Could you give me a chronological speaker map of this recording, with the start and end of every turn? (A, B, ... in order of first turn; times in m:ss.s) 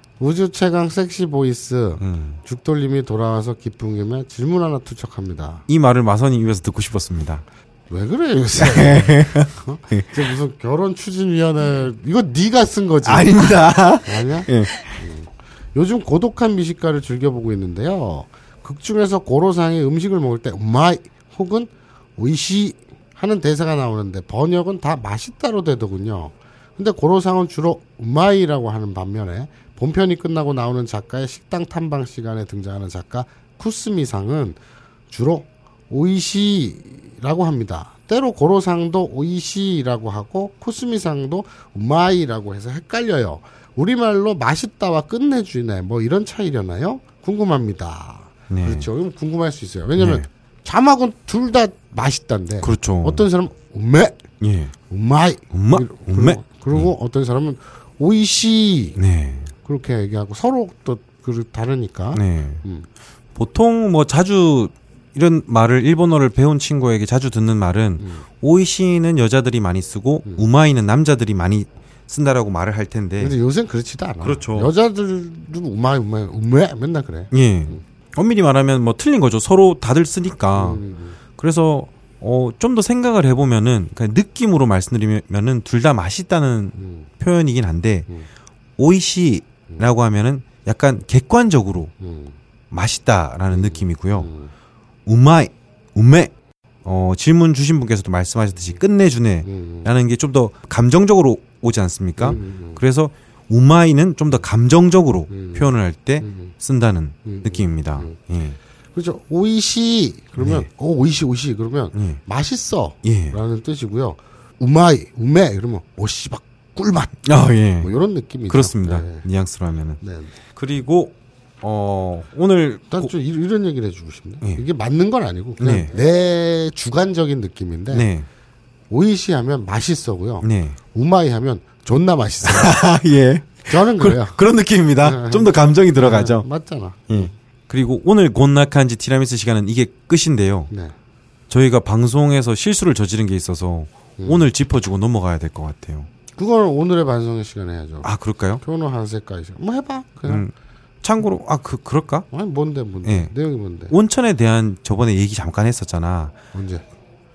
0:00.2-0:05.6 A
0:02.0-0:02.4 B
0:05.7-0:07.4 B
0:07.9-0:13.4 A
0:08.6-0:10.2 B
0:13.0-0:15.0 B
0:14.0-0:34.6 A
0:35.1-0:54.2 A
0:48.5-0:48.9 B
0:50.0-0:50.3 B
0:52.6-0:53.2 B
0:54.4-0:54.7 B
0:54.9-0:59.0 A
0:55.5-0:56.9 B
0:59.0-0:59.5 B
0:59.6-1:02.9 A
1:02.1-1:02.6 B
1:03.4-1:13.4 B
1:08.0-1:08.2 A
1:13.2-1:17.8 A
1:14.2-1:14.7 B
1:17.3-1:20.8 B
1:20.6-1:21.2 A
1:21.4-1:28.1 B
1:26.8-1:27.1 A
1:28.8-1:31.9 B
1:32.0-1:32.4 A
1:32.7-1:34.3 B
1:33.5-1:34.5 A
1:35.1-1:36.3 B
1:36.8-1:48.6 B
1:39.4-1:39.9 A
1:42.2-1:42.8 A
1:45.3-1:45.7 A
1:46.2-1:46.5 A
1:47.2-1:48.2 A
1:49.0-1:57.2 A
1:50.4-1:50.7 B
1:51.9-1:52.2 B
1:53.0-1:53.4 B
1:57.2-1:57.9 B
1:57.8-1:59.2 A
1:58.5-2:03.1 B
2:00.0-2:00.3 A
2:02.9-2:08.1 A
2:05.6-2:05.9 B
2:07.9-2:08.3 B
2:08.9-2:12.8 A
2:10.4-2:10.8 B
2:12.4-2:16.4 B
2:13.7-2:14.4 A
2:15.0-2:17.3 A
2:17.1-2:20.7 B
2:20.7-2:21.0 A
2:21.5-2:26.1 B
2:24.2-2:24.5 A
2:26.4-2:28.1 A
2:28.0-2:28.6 B
2:28.6-2:30.4 A
2:30.3-2:30.5 B
2:31.0-2:32.3 B
2:32.3-2:34.0 A
2:33.0-2:33.3 B
2:33.9-2:36.4 B
2:36.5-2:36.8 A